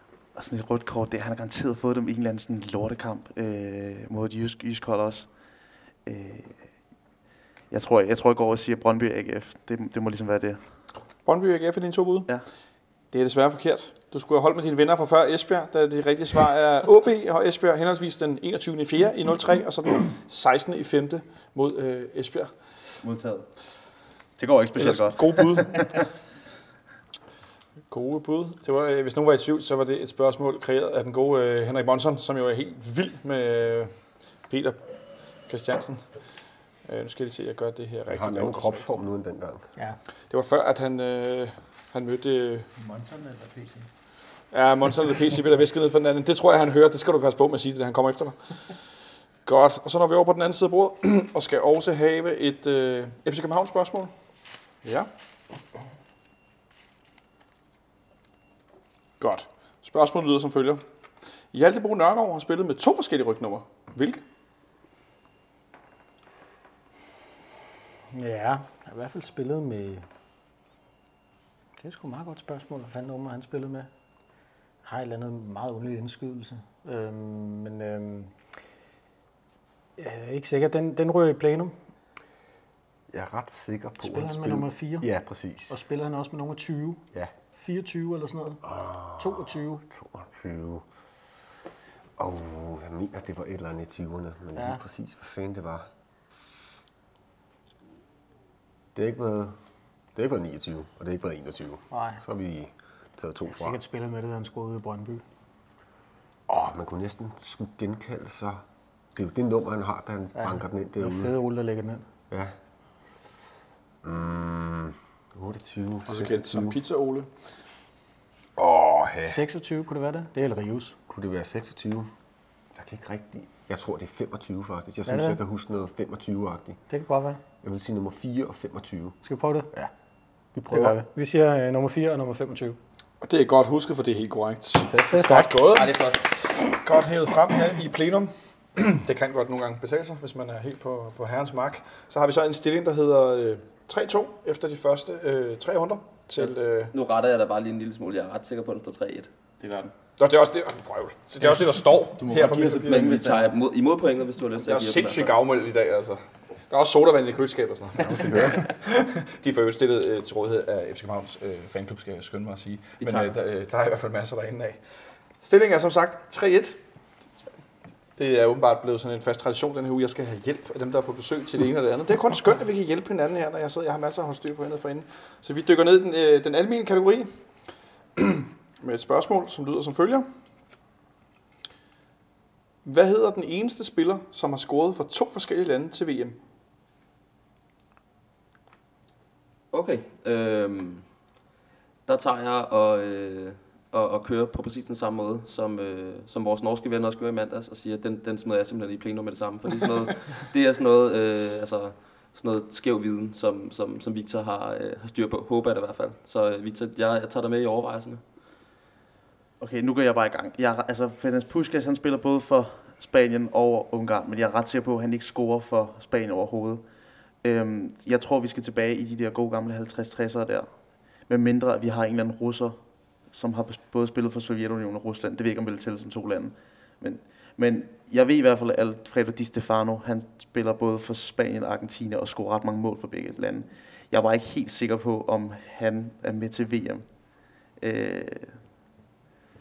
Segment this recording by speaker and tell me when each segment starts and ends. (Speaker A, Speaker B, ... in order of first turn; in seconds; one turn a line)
Speaker A: 0.3-6.8
Speaker A: 7.7-10.8
Speaker B: 11.2-12.4
Speaker B: 13.1-22.8
Speaker A: 23.0-26.1
Speaker B: 24.8-26.1
Speaker B: 27.9-36.3
Speaker B: 36.8-38.9
Speaker C: 38.1-39.7
Speaker B: 40.3-42.7
Speaker D: 42.8-43.9
Speaker B: 44.5-48.7
Speaker B: 49.4-54.1
Speaker B: 54.8-55.1
Speaker B: 59.2-60.8
Speaker B: 61.5-64.2
Speaker D: 68.1-70.1
Speaker D: 71.8-73.9
Speaker D: 74.8-78.4
Speaker D: 80.0-81.7
Speaker C: 83.1-85.8
Speaker D: 84.0-85.1
Speaker D: 85.7-87.0
Speaker D: 87.6-88.6
Speaker C: 88.6-90.9
Speaker D: 89.2-89.8
Speaker C: 92.2-95.9
Speaker D: 94.5-94.8
Speaker C: 98.9-99.6
Speaker C: 100.1-103.8
Speaker D: 101.9-102.2
Speaker D: 103.5-105.2
Speaker C: 106.5-108.6
Speaker C: 109.1-111.3
Speaker D: 110.4-112.0
Speaker C: 112.3-112.6
Speaker C: 114.0-116.8
Speaker B: 116.1-117.3
Speaker C: 118.6-119.4
Speaker D: 119.3-121.0
Speaker C: 121.1-122.1
Speaker C: 122.7-126.8
Speaker D: 125.1-125.4
Speaker D: 126.9-127.4
Speaker C: 127.6-129.2
Speaker D: 129.2-129.7
Speaker D: 130.6-132.8
Speaker C: 130.7-131.0
Speaker B: 133.2-146.9
Speaker C: 134.9-135.3
Speaker D: 135.1-135.5
Speaker E: 135.5-136.3
Speaker E: 146.4-149.3
Speaker A: 149.6-149.9
Speaker B: 150.2-153.3
Speaker A: 152.2-153.5
Speaker E: 152.3-155.4
Speaker B: 154.6-164.8
Speaker C: 158.1-158.6
Speaker B: 165.4-166.8
Speaker B: 168.2-177.3
Speaker B: 178.2-180.3
Speaker B: 182.8-186.4
Speaker E: 189.7-191.1
Speaker E: 192.1-208.2
Speaker A: 209.6-216.8
Speaker A: 217.4-238.6